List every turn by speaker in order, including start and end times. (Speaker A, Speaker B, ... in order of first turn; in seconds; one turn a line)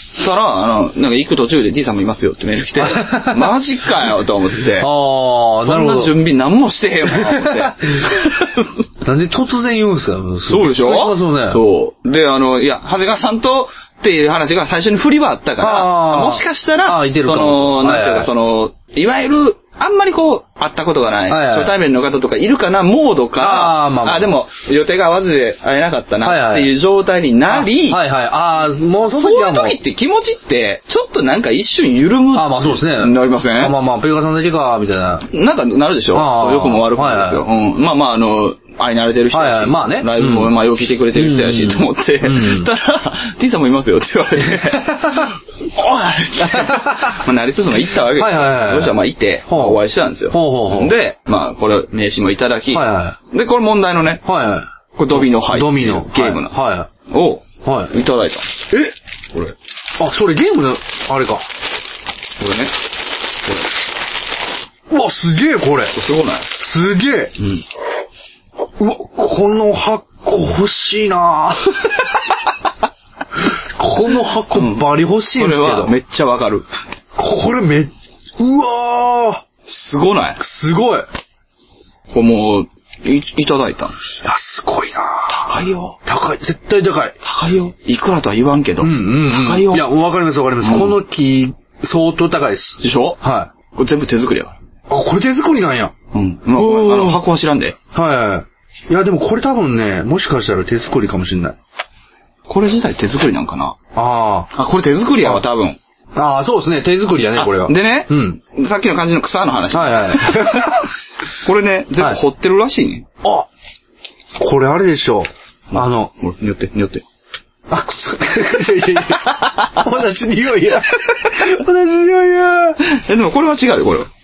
Speaker A: 0.2-4.9
Speaker B: 2.8-3.5
Speaker B: 4.8-6.2
Speaker A: 5.6-8.7
Speaker B: 7.1-8.1
Speaker B: 9.0-11.6
Speaker A: 10.5-28.0
Speaker B: 15.6-18.3
Speaker B: 21.3-21.7
Speaker B: 23.4-24.3
Speaker B: 26.2-26.7
Speaker B: 27.5-29.8
Speaker A: 29.1-33.7
Speaker B: 32.3-35.3
Speaker A: 35.3-54.2
Speaker B: 36.1-37.4
Speaker B: 39.3-40.5
Speaker B: 41.1-42.7
Speaker B: 44.5-45.3
Speaker B: 46.4-47.2
Speaker B: 48.1-50.9
Speaker B: 52.7-53.2
Speaker B: 54.2-56.9
Speaker A: 54.9-56.6
Speaker A: 57.1-58.5
Speaker B: 57.6-57.9
Speaker B: 60.0-61.5
Speaker A: 62.4-62.7
Speaker B: 64.9-66.0
Speaker A: 65.9-66.5
Speaker B: 66.5-67.3
Speaker A: 67.4-67.6
Speaker B: 68.8-72.1
Speaker B: 73.5-75.9
Speaker A: 74.5-76.7
Speaker B: 77.2-79.4
Speaker A: 79.7-80.4
Speaker B: 80.4-81.1
Speaker A: 82.1-84.0
Speaker B: 84.2-85.5
Speaker A: 85.3-86.0
Speaker B: 86.0-87.2
Speaker A: 87.2-89.9
Speaker B: 88.8-93.5
Speaker A: 90.6-91.0
Speaker A: 92.8-93.2
Speaker A: 93.7-94.5
Speaker B: 94.9-95.9
Speaker A: 96.1-97.8
Speaker B: 96.5-97.2
Speaker B: 97.9-101.5
Speaker A: 102.5-103.8
Speaker B: 103.9-104.5
Speaker A: 104.5-105.8
Speaker B: 106.1-108.4
Speaker A: 107.3-110.9
Speaker B: 109.7-110.8
Speaker A: 111.4-113.1
Speaker B: 114.4-116.1
Speaker A: 115.7-117.0
Speaker B: 117.7-122.8
Speaker A: 122.8-124.1